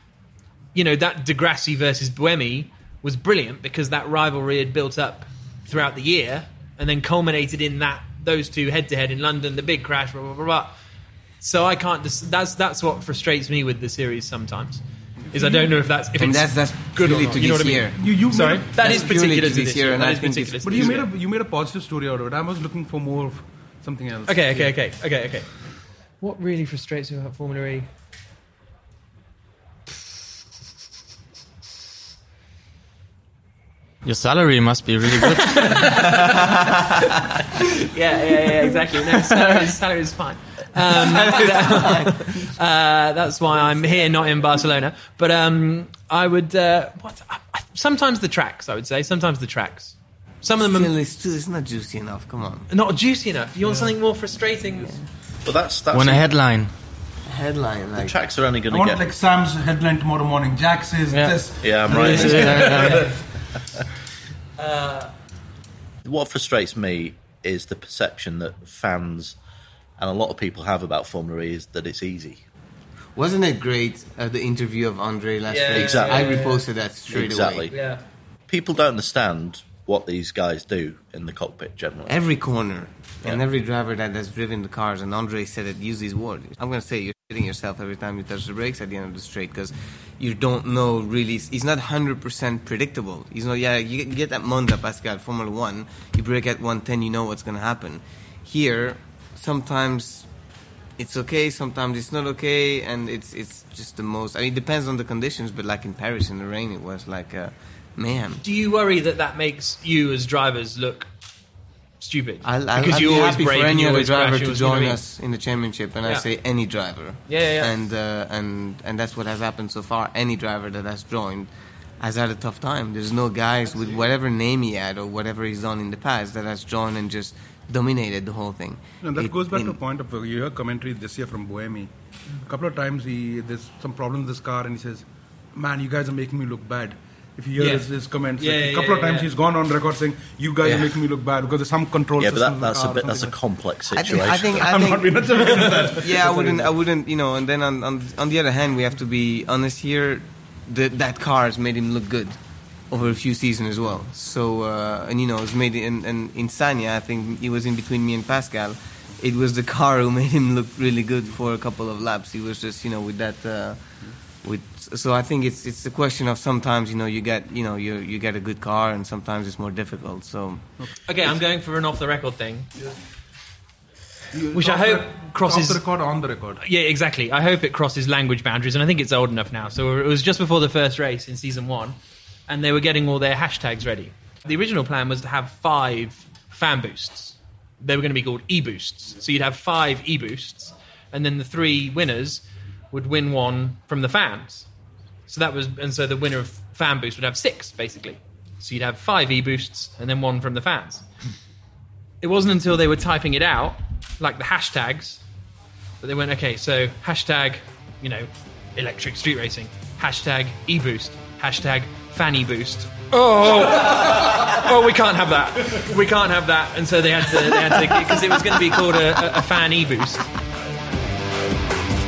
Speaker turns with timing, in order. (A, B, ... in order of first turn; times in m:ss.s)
0:00.7-0:10.7 A
0:11.4-0:21.1 A
0:15.3-0:15.7 B
0:16.2-0:18.0 C
0:18.0-0:19.0 B
0:18.8-0:21.0 C
0:20.6-0:24.7 B
0:24.3-0:27.9 A
0:34.0-0:36.1 D
0:35.4-0:36.3 A
0:37.6-0:50.9 A
0:40.9-0:42.4 C
0:50.6-0:52.7 C
0:52.7-0:55.0 A
0:55.4-0:56.2 E
0:55.9-0:56.7 D
0:57.2-0:58.2 C
0:58.0-0:59.0 E
0:58.7-1:03.2 B
1:01.1-1:03.1 D
1:01.6-1:02.7 E
1:04.6-1:05.1 A
1:06.0-1:09.4 E
1:10.0-1:12.4 E
1:13.1-1:17.7 C
1:15.5-1:16.6 A
1:15.7-1:16.4 E
1:17.1-1:17.7 E
1:17.7-1:18.0 A
1:18.5-1:22.2 E
1:22.1-1:40.4 C
1:41.0-1:48.4 C
1:48.4-1:51.1 A
1:52.0-1:55.0 A
1:52.4-2:01.5 C
1:57.3-1:57.7 A
2:02.0-2:09.8 C
2:09.0-2:11.9 B
2:12.4-2:23.3 B
2:17.6-2:19.3 A
2:22.2-2:24.6 E
2:23.9-2:50.7 C
2:24.5-2:26.2 B
2:25.3-2:26.7 A
2:51.0-2:52.7 A
2:54.3-2:56.6 B
2:54.5-2:55.8 A
2:56.6-3:02.0 A
3:02.5-3:14.7 A
3:15.3-3:21.0 A
3:22.2-3:25.2 A
3:26.0-3:40.2 A